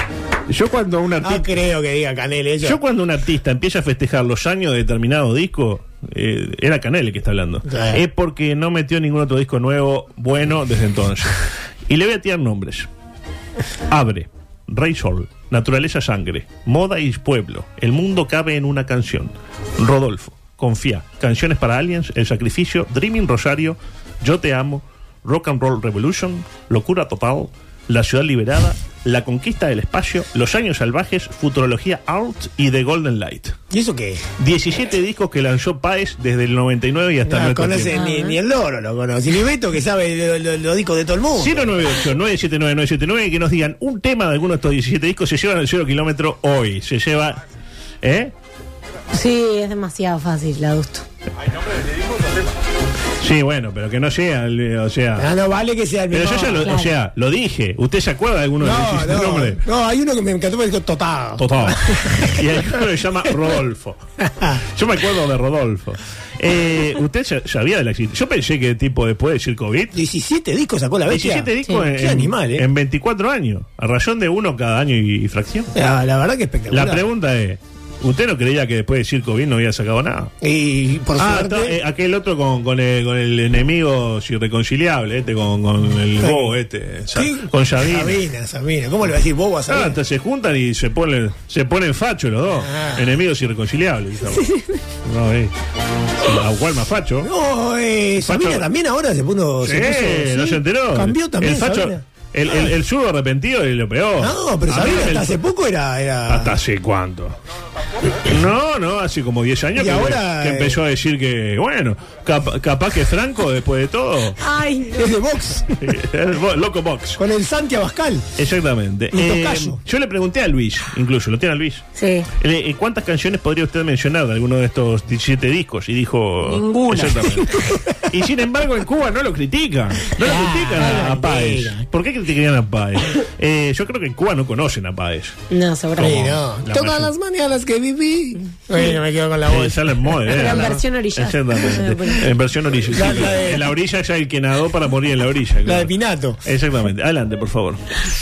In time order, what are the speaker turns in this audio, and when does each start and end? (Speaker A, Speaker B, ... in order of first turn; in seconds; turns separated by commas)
Speaker A: 0.5-1.5, Speaker B: 1.2-2.8, Speaker A: 2.6-12.9, Speaker B: 7.7-8.0, Speaker A: 13.9-33.5, Speaker B: 33.7-34.2, Speaker A: 34.4-38.0, Speaker B: 37.2-41.9, Speaker C: 37.9-38.4, Speaker A: 41.3-47.4, Speaker A: 48.0-48.3, Speaker C: 49.1-51.0, Speaker A: 53.2-55.3, Speaker B: 55.2-56.8, Speaker A: 56.1-59.6, Speaker C: 56.6-56.9, Speaker B: 58.6-62.7, Speaker A: 61.4-64.0, Speaker B: 64.2-64.6, Speaker A: 64.7-70.0, Speaker B: 69.9-72.7, Speaker A: 71.1-75.7, Speaker B: 75.7-77.0, Speaker A: 76.7-80.3, Speaker B: 80.4-81.8, Speaker A: 81.2-88.2, Speaker B: 86.2-86.5, Speaker B: 87.1-90.0, Speaker A: 89.7-94.5, Speaker B: 92.6-93.1, Speaker C: 94.3-94.8, Speaker A: 95.0-95.5, Speaker A: 96.2-97.3, Speaker B: 97.2-102.7, Speaker A: 98.2-98.7, Speaker A: 99.6-105.4, Speaker B: 104.2-106.5, Speaker A: 106.3-107.3, Speaker A: 108.1-114.4, Speaker B: 109.8-110.8, Speaker C: 114.4-115.1, Speaker B: 114.9-115.8, Speaker A: 115.8-117.2, Speaker B: 117.2-118.3, Speaker A: 118.4-121.8, Speaker B: 119.1-119.8, Speaker C: 122.0-122.3, Speaker A: 122.4-135.3, Speaker C: 126.5-127.3, Speaker B: 127.0-127.8, Speaker B: 130.1-131.8, Speaker C: 130.8-131.2, Speaker C: 135.5-136.3, Speaker A: 136.0-137.1, Speaker B: 136.0-140.8, Speaker C: 138.7-139.0, Speaker A: 139.5-145.9, Speaker C: 140.3-142.3, Speaker B: 142.9-143.7, Speaker B: 145.6-146.4, Speaker A: 146.4-147.8